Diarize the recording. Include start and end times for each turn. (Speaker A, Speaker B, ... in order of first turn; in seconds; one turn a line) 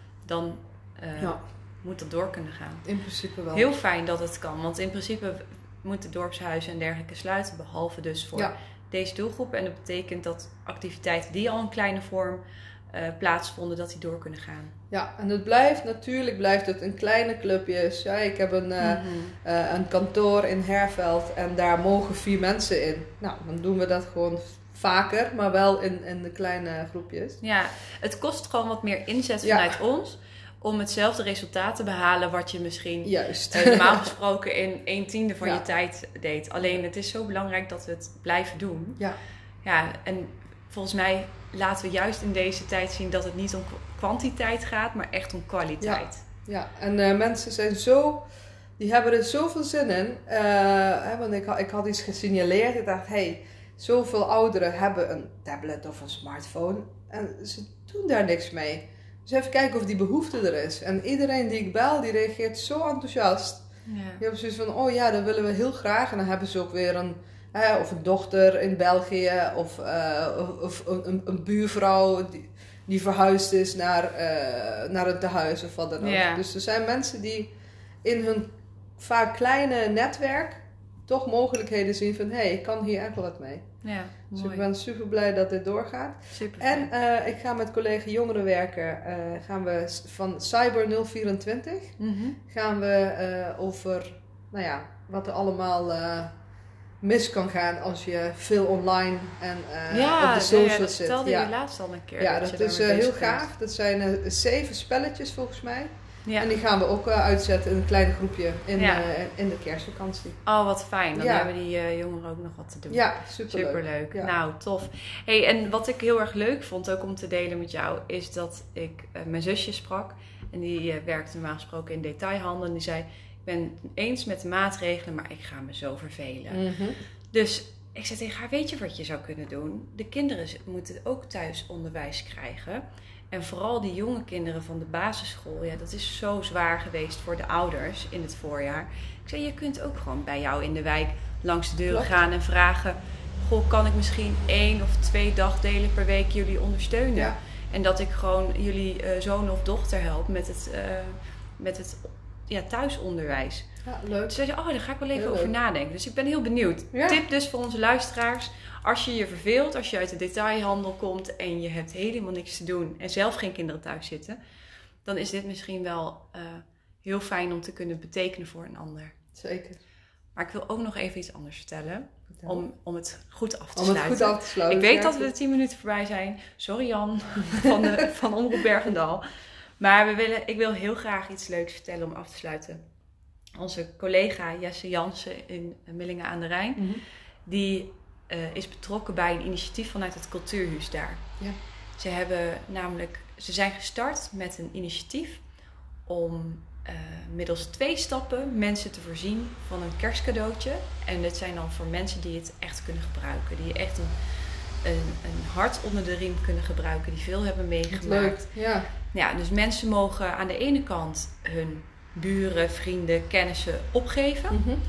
Speaker A: 0.2-2.9
Speaker B: 2.8-3.7
Speaker A: 3.5-14.7
Speaker B: 14.9-27.4
Speaker A: 18.8-19.4
Speaker A: 27.4-39.0
Speaker B: 29.4-29.8
Speaker B: 33.0-34.1
Speaker B: 35.4-35.7
Speaker A: 39.6-46.2
Speaker B: 45.8-48.3
Speaker B: 48.8-63.6
Speaker A: 63.9-64.2
Speaker B: 64.2-77.5
Speaker A: 76.0-76.4
Speaker B: 78.0-83.7
Speaker A: 83.8-84.7
Speaker B: 84.3-92.0
Speaker A: 86.3-86.9
Speaker A: 92.0-92.4
Speaker B: 92.5-96.3
Speaker B: 97.0-101.5
Speaker A: 99.9-103.5
Speaker B: 102.2-110.4
Speaker A: 106.2-106.5
Speaker A: 108.8-109.1
Speaker A: 110.4-126.6
Speaker B: 111.1-111.5
Speaker B: 112.9-114.3
Speaker B: 126.5-127.0
Speaker A: 127.3-153.7
Speaker B: 141.9-142.2
Speaker B: 153.8-154.4
Speaker A: 154.3-164.4
Speaker B: 155.1-155.5
Speaker B: 156.9-157.2
Speaker A: 165.0-169.2
Speaker B: 169.3-169.8
Speaker A: 170.3-179.2
Speaker B: 172.3-172.6
Speaker B: 173.7-175.3
Speaker B: 177.6-177.9
Speaker A: 179.8-182.8
Speaker A: 183.6-191.2
Speaker B: 186.8-187.0
Speaker A: 192.0-195.4
Speaker A: 196.1-204.2
Speaker A: 204.8-208.5
Speaker B: 207.9-208.9
Speaker A: 209.1-214.6
Speaker B: 214.5-214.8